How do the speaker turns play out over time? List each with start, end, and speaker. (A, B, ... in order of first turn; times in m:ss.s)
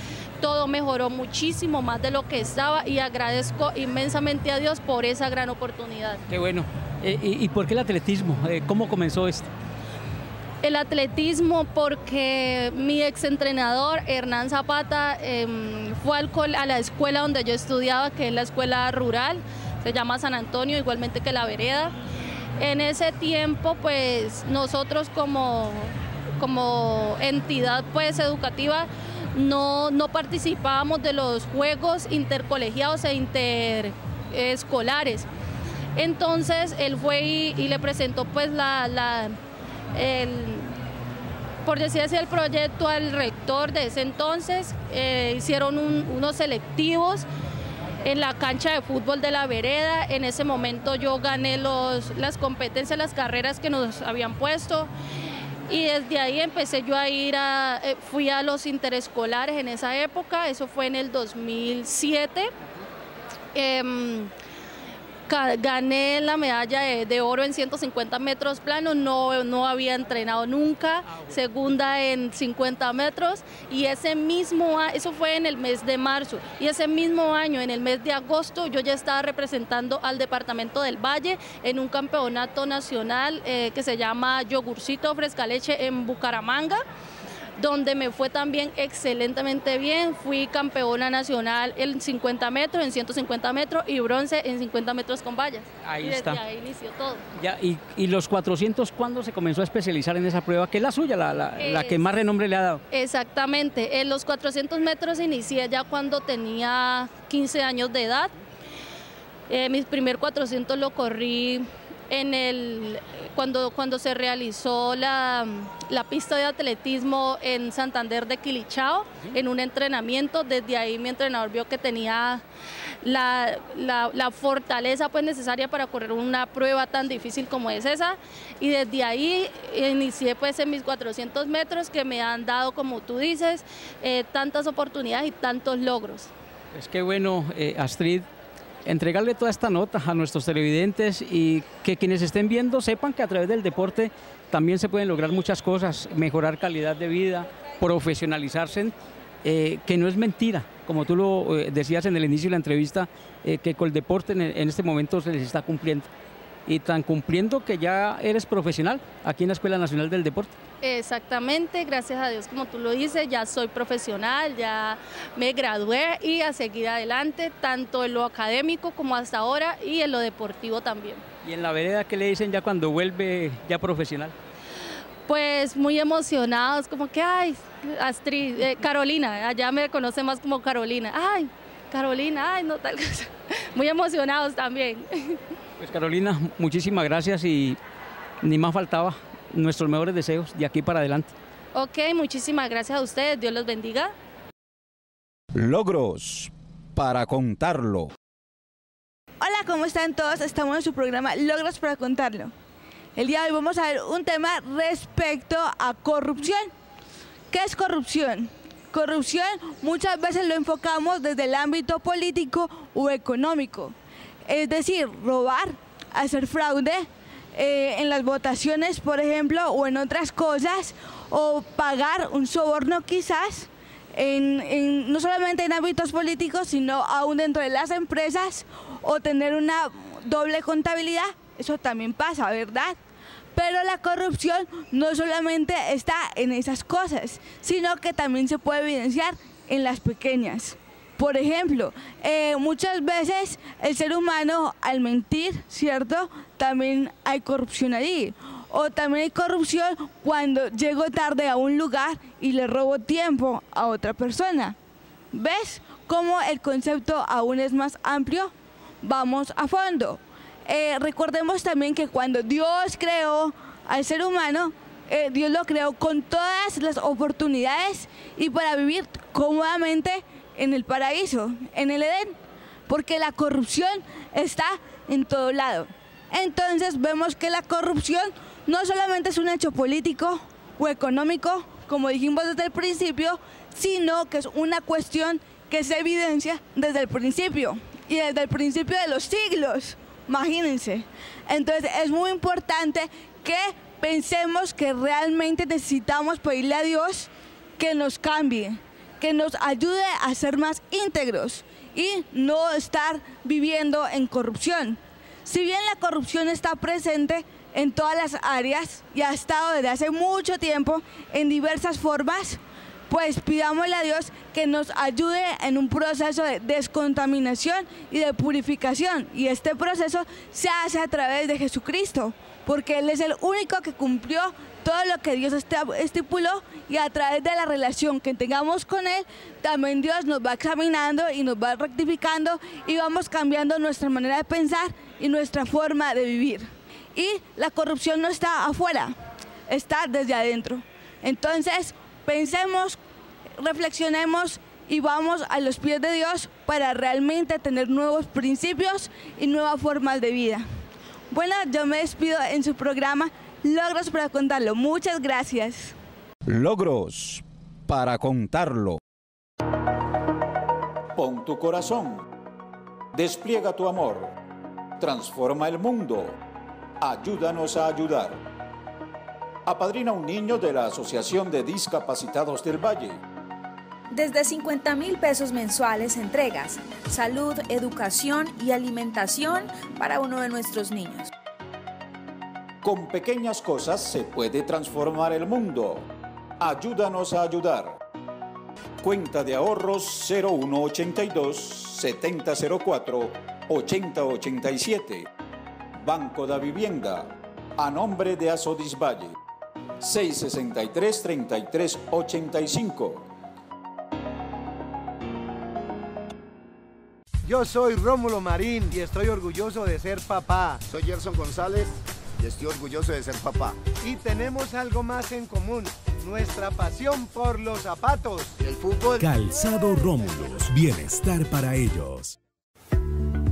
0:00.4-0:06.2 A
0:06.3-0:09.5 B
0:10.6-0:21.9 A
0:22.6-0:35.2 A
0:36.0-0:39.4 A
0:39.9-0:40.7 A
0:41.6-0:47.2 A
0:48.0-0:54.9 A
0:55.7-1:02.5 A
1:03.5-1:04.3 A
1:05.3-1:26.8 A
1:27.6-1:37.2 A
1:35.8-1:36.4 B
1:37.4-1:42.8 B
1:41.6-1:42.0 A
1:42.9-1:48.3 A
1:49.5-2:02.4 A
2:03.0-2:16.3 A
2:16.7-2:18.2 B
2:18.8-2:36.1 B
2:36.6-2:40.5 B
2:40.8-2:51.2 A
2:51.4-2:54.3 B
2:55.3-3:05.4 A
3:05.8-3:07.8 B
3:08.4-3:11.3 B
3:11.7-3:14.1 A
3:15.5-3:18.1 C
3:19.4-3:22.5 D
3:23.2-3:26.7 D
3:27.5-3:33.9 D
3:34.5-3:53.0 D
3:53.5-4:14.7 D
4:15.3-4:32.4 D
4:32.9-5:39.1 D
5:39.7-5:43.0 D
5:43.6-5:50.6 D
5:51.3-5:55.9 D
5:56.5-5:59.0 C
6:01.2-6:02.2 C
6:03.1-6:04.3 C
6:05.0-6:06.4 C
6:07.0-6:08.4 C
6:09.6-6:13.2 C
6:14.1-6:21.3 E
6:22.8-6:26.1 C
6:26.6-6:28.0 C
6:29.0-6:35.3 C
6:36.0-6:39.3 C
6:40.0-6:43.3 C
6:47.4-6:50.8 F
6:50.8-6:53.8 G
6:54.0-6:58.5 F
6:58.6-6:59.2 G
6:59.2-7:02.4 H